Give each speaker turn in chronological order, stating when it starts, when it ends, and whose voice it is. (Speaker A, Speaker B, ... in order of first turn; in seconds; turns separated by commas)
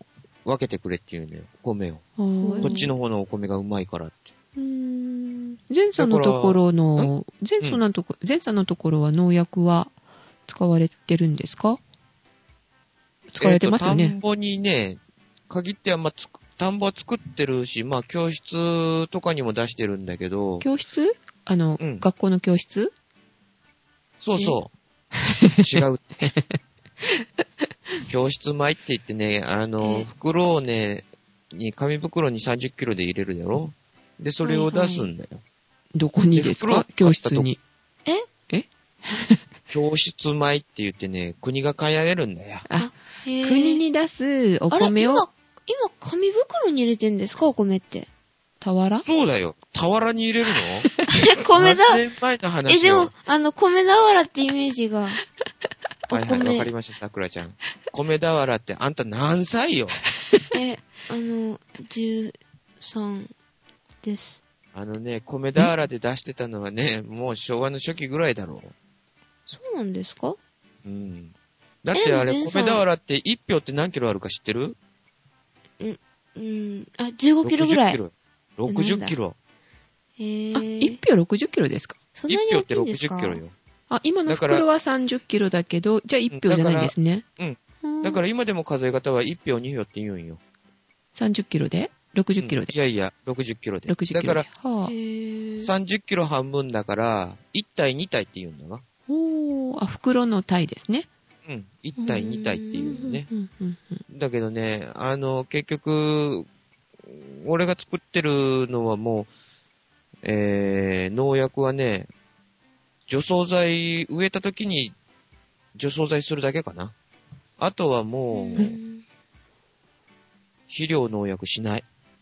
Speaker A: 0.5-2.0, Speaker B: 2.2-2.9, Speaker C: 2.4-2.9, Speaker A: 2.6-4.3, Speaker B: 4.6-9.9, Speaker A: 6.0-7.8, Speaker B: 10.5-11.8, Speaker B: 13.3-14.2, Speaker A: 13.4-20.7, Speaker B: 20.6-22.9, Speaker A: 21.8-22.1, Speaker A: 24.2-24.7, Speaker B: 25.2-25.7, Speaker A: 25.6-26.3, Speaker B: 26.2-27.2, Speaker A: 28.1-35.4, Speaker C: 29.8-30.1, Speaker C: 34.4-35.1, Speaker B: 36.0-37.6, Speaker A: 36.2-37.5, Speaker B: 38.5-39.4, Speaker A: 39.7-42.6, Speaker B: 42.7-45.2, Speaker C: 42.8-43.8, Speaker C: 44.7-48.1, Speaker B: 48.6-49.1, Speaker A: 49.0-50.9, Speaker C: 51.1-52.0, Speaker A: 51.5-53.1, Speaker C: 52.7-55.2, Speaker C: 56.1-56.7, Speaker A: 56.1-60.0, Speaker C: 60.5-63.3, Speaker C: 64.0-64.4, Speaker A: 64.7-68.7, Speaker C: 69.5-70.4, Speaker A: 70.8-71.3, Speaker A: 71.8-74.8, Speaker C: 71.9-72.8, Speaker C: 75.8-78.0, Speaker A: 77.4-79.4, Speaker C: 78.7-79.2, Speaker C: 80.2-81.0, Speaker B: 80.5-82.0, Speaker C: 82.2-83.4, Speaker A: 82.3-83.5, Speaker B: 83.9-87.3, Speaker A: 84.3-84.7, Speaker A: 86.3-90.4, Speaker B: 87.8-88.2, Speaker B: 91.2-92.7, Speaker A: 92.4-94.5, Speaker B: 93.9-94.9, Speaker C: 94.8-95.7, Speaker A: 95.6-98.8, Speaker B: 99.1-101.1, Speaker A: 101.5-103.3, Speaker C: 102.0-103.0, Speaker B: 102.7-104.0, Speaker A: 104.1-106.5, Speaker A: 107.0-109.3, Speaker A: 110.2-112.1, Speaker A: 113.1-115.0, Speaker A: 115.8-117.0, Speaker A: 117.6-118.8, Speaker C: 118.3-119.0, Speaker A: 120.7-121.8